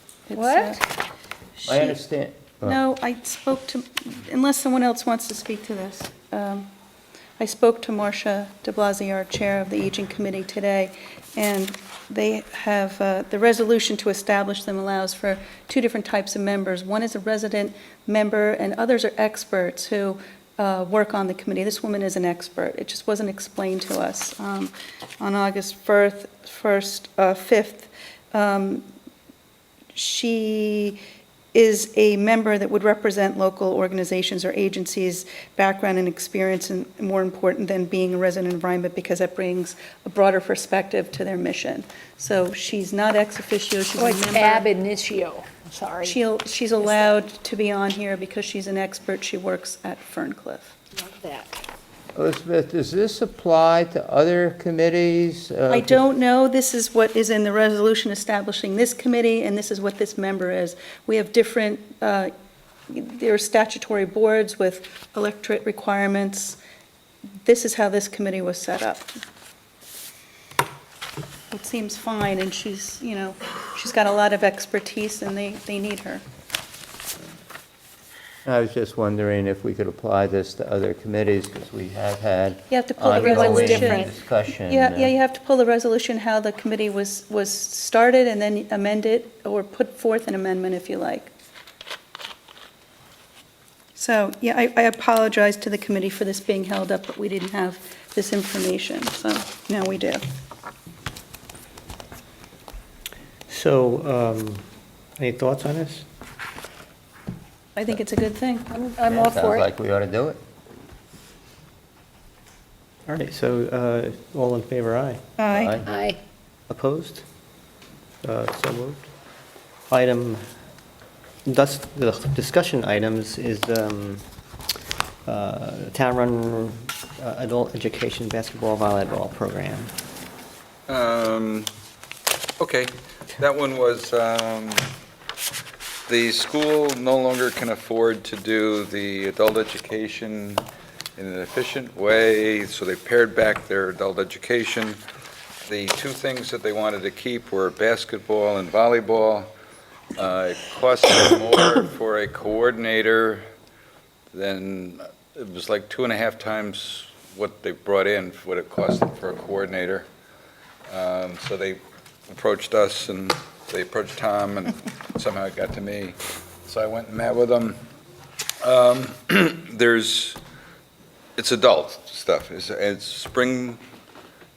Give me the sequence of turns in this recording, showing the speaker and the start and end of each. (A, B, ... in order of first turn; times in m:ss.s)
0:00.3-0:00.8 A
0:00.3-0:00.8 B
0:01.6-0:02.0 A
0:01.6-0:02.8 C
0:02.6-0:06.7 A
0:07.4-0:28.8 A
0:29.9-0:31.0 A
0:31.5-0:44.7 A
0:43.9-0:46.2 B
0:46.0-0:50.8 A
0:46.8-0:47.1 B
0:51.0-0:51.6 B
0:52.1-0:56.0 C
0:55.7-1:02.3 A
1:02.9-1:06.6 A
1:07.4-1:09.1 A
1:11.5-1:16.2 A
1:18.4-1:25.1 C
1:22.7-1:24.1 A
1:23.1-1:24.1 B
1:24.7-1:31.3 A
1:34.0-1:40.2 A
1:43.5-1:44.6 D
1:45.2-1:46.0 D
1:47.8-1:48.7 A
1:48.7-1:49.7 B
1:49.1-1:50.4 C
1:53.1-1:55.2 D
1:55.4-1:55.7 A
1:55.5-1:55.9 C
1:55.8-1:56.2 B
1:56.7-1:57.2 D
1:58.2-1:59.1 D
1:59.9-2:00.4 D
2:01.4-2:04.2 D
2:05.2-2:09.9 D
2:10.9-2:11.7 E
2:12.6-2:14.9 E
2:16.1-2:20.6 E
2:21.2-2:25.0 E
2:25.6-2:29.5 E
2:30.2-2:33.4 E
2:34.3-2:40.0 E
2:40.9-2:41.8 E
2:42.3-2:47.8 E
2:48.6-2:50.4 E
2:51.4-2:53.8 E